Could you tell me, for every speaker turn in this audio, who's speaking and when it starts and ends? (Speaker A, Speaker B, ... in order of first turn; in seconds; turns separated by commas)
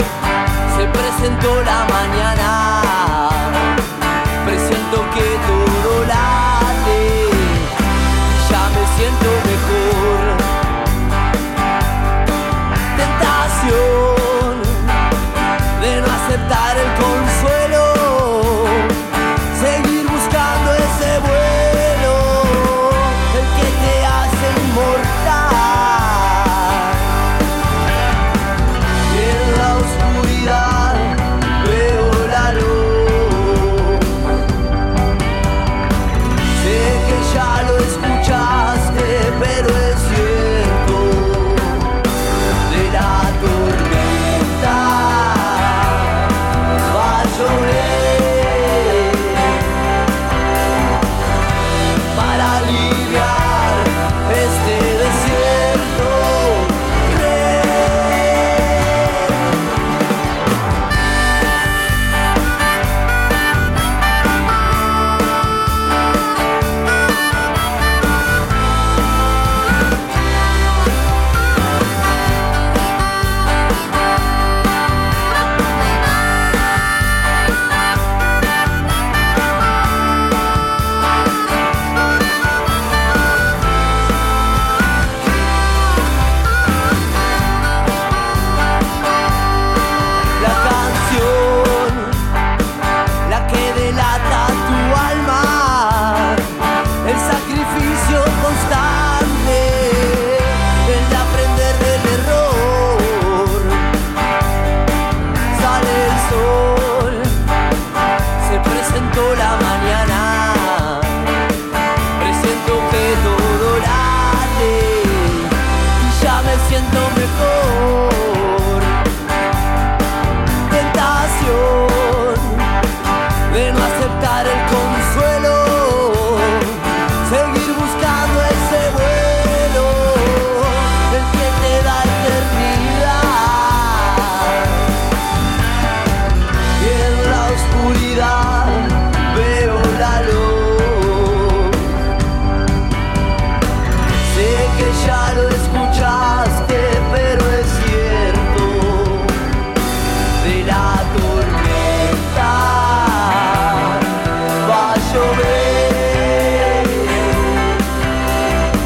Speaker A: 0.7-3.7, Speaker A: 4.4-7.7, Speaker A: 8.3-10.4, Speaker A: 12.9-14.9, Speaker A: 15.8-18.9, Speaker A: 19.5-26.9, Speaker A: 29.1-34.0, Speaker A: 36.6-41.9, Speaker A: 42.7-46.2, Speaker A: 46.9-49.6, Speaker A: 52.1-58.2, Speaker A: 90.4-92.2, Speaker A: 93.3-96.4, Speaker A: 97.0-103.8, Speaker A: 105.5-107.3, Speaker A: 108.5-111.2, Speaker A: 112.2-115.5, Speaker A: 116.0-118.9, Speaker A: 120.7-122.7, Speaker A: 123.5-134.6, Speaker A: 136.8-141.8, Speaker A: 144.3-149.4, Speaker A: 150.4-153.7, Speaker A: 154.7-157.1